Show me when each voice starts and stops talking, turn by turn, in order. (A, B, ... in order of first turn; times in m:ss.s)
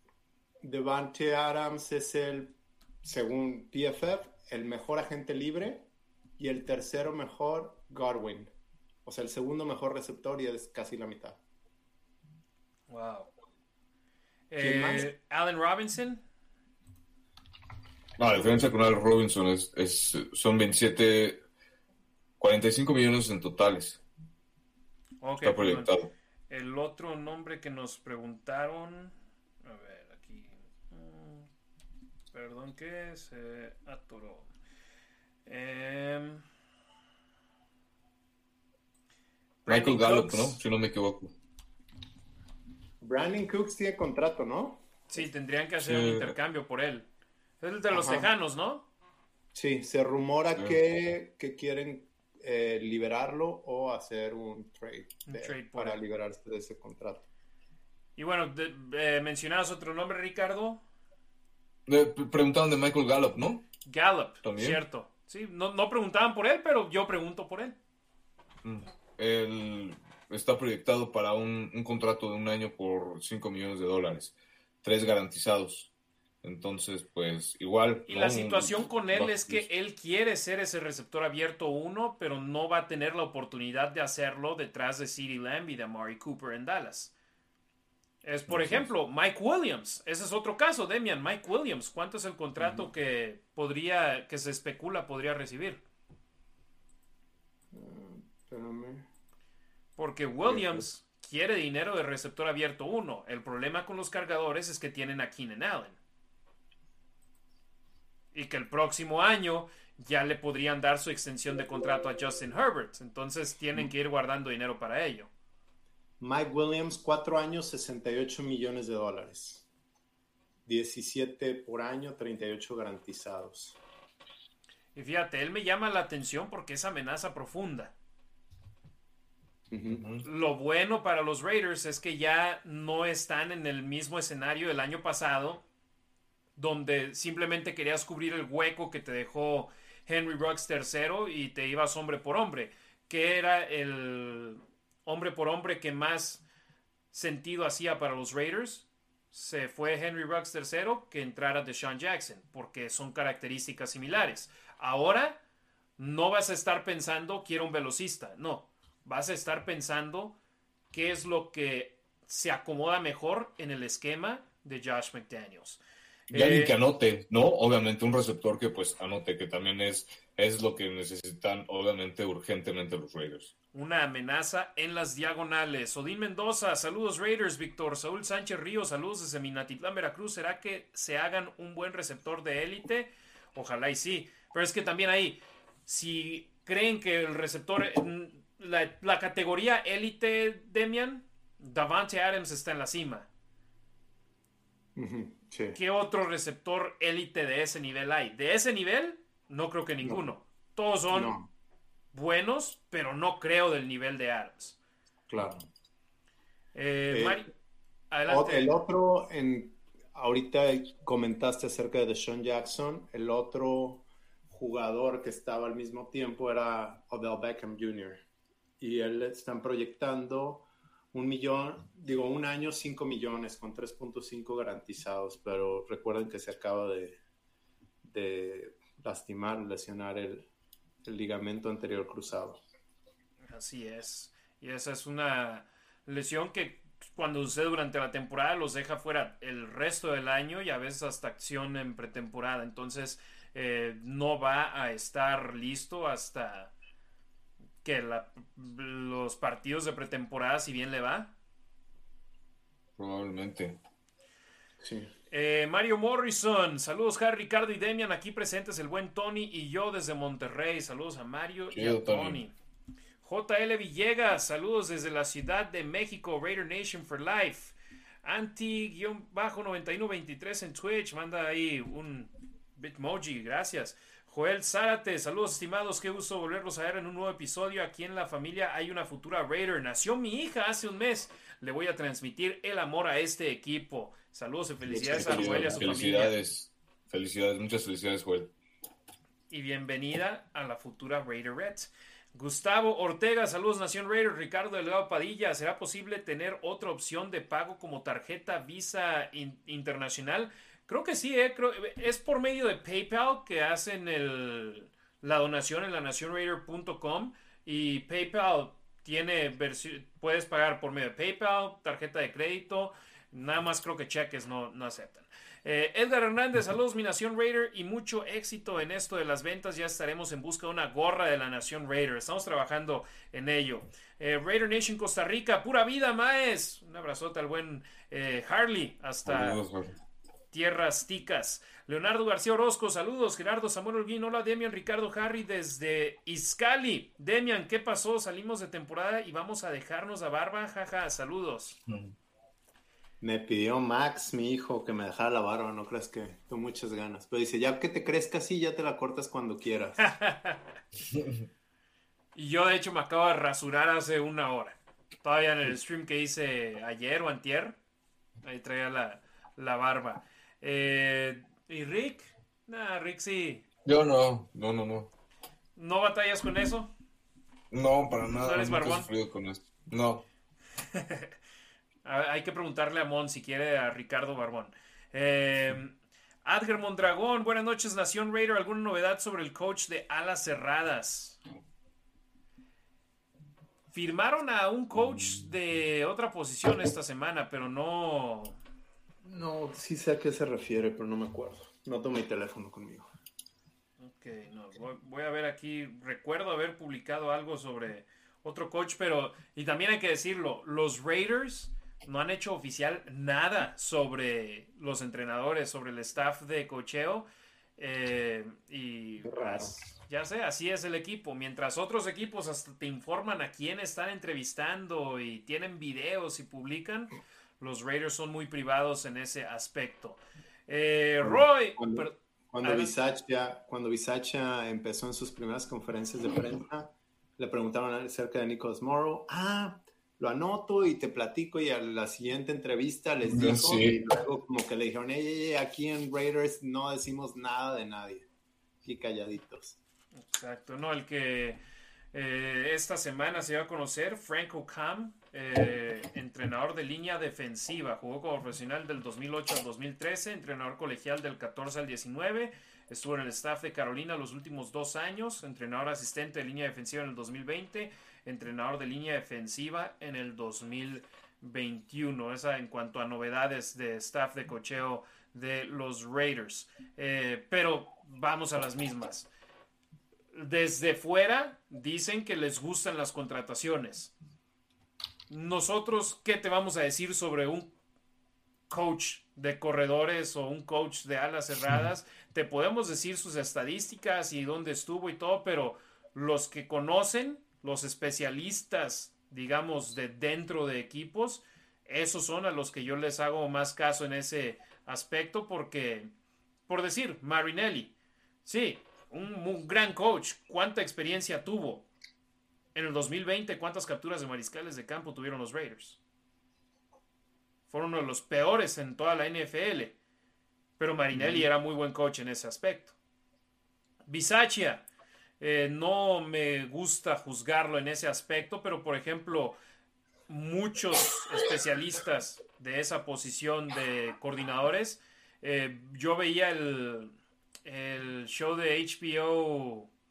0:00.6-0:08.5 A
0:09.0-0:11.4 A
0:12.9-0:13.3 B
0:14.5-0:16.2 B
0:14.6-0:15.1 A
0:18.2-0:21.4 C
0:22.4-0:24.0 C
0:25.2-0:25.9 B
0:25.4-0:26.1 C
0:26.5-0:31.5 B
0:32.3-0:34.5 B
0:35.4-0:36.4 B
0:39.6-0:40.6 B
0:39.7-0:41.3 C
0:43.0-0:45.2 A
0:45.1-0:47.1 B
0:45.8-0:46.3 C
0:47.6-0:48.8 B
0:47.9-0:48.3 A
0:49.5-0:57.3 A
0:55.3-0:56.0 B
0:58.2-1:00.8 B
1:01.9-1:03.6 C
1:03.8-1:07.8 B
1:04.4-1:04.8 C
1:08.6-1:15.9 C
1:16.4-1:19.6 C
1:18.1-1:27.1 B
1:28.2-1:35.8 B
1:28.5-1:28.9 C
1:37.7-1:39.1 A
1:40.0-1:46.0 B
1:40.4-1:40.8 A
1:48.3-1:55.3 B
1:56.2-1:59.6 A
2:00.6-2:03.8 A
2:04.9-2:07.9 B
2:09.7-2:10.1 A
2:09.9-2:10.2 C
2:10.2-2:15.6 B
2:16.6-2:26.4 B
2:27.1-2:35.4 B
2:36.0-2:40.3 B
2:40.9-2:45.8 B
2:46.3-2:53.5 C
2:46.3-2:46.7 B
2:53.7-3:13.3 B
3:14.9-3:15.8 A
3:15.7-3:21.4 B
3:21.1-3:21.5 A
3:22.1-3:24.8 B
3:25.3-3:25.7 A
3:26.7-3:27.5 B
3:27.1-3:27.4 A
3:28.1-3:28.7 B
3:28.3-3:38.2 A
3:38.8-3:47.2 A
3:48.0-3:50.5 A
3:51.0-3:52.6 A
3:53.5-4:06.7 B
4:07.8-4:11.3 B
4:13.0-4:13.8 C
4:14.8-4:15.1 A
4:15.3-4:22.5 B
4:21.7-4:22.4 C
4:23.2-4:46.3 B
4:44.9-4:48.5 C
4:45.1-4:45.8 A
4:49.5-5:29.6 B
5:29.2-5:29.9 C
5:30.5-5:41.8 B
5:41.9-5:42.1 C
5:43.2-5:50.0 A
5:50.0-5:50.8 B
5:52.3-5:57.8 B
5:58.4-6:03.6 B
6:03.8-6:05.1 C
6:05.8-6:06.9 B
6:07.7-6:10.2 C
6:08.4-6:09.1 B
6:10.9-6:11.3 B
6:12.0-6:15.9 B
6:16.4-6:21.4 B
6:23.9-6:28.6 B
6:29.2-6:33.1 A
6:34.0-6:47.3 B
6:47.8-7:02.9 B
6:49.2-6:49.7 A
7:01.2-7:18.3 A
7:13.3-7:14.0 C
7:18.8-7:19.8 A
7:20.2-7:21.6 B
7:22.1-7:49.3 B
7:50.3-7:54.1 B
7:55.3-7:57.7 B
7:58.7-8:16.1 B
8:16.7-8:17.9 B
8:18.4-8:21.9 B
8:22.7-8:26.0 B
8:27.7-8:29.9 B
8:30.8-8:32.9 B
8:31.1-8:31.4 A
8:34.1-8:34.8 B
8:35.4-8:39.6 B
8:40.3-8:47.1 B
8:47.6-8:49.9 B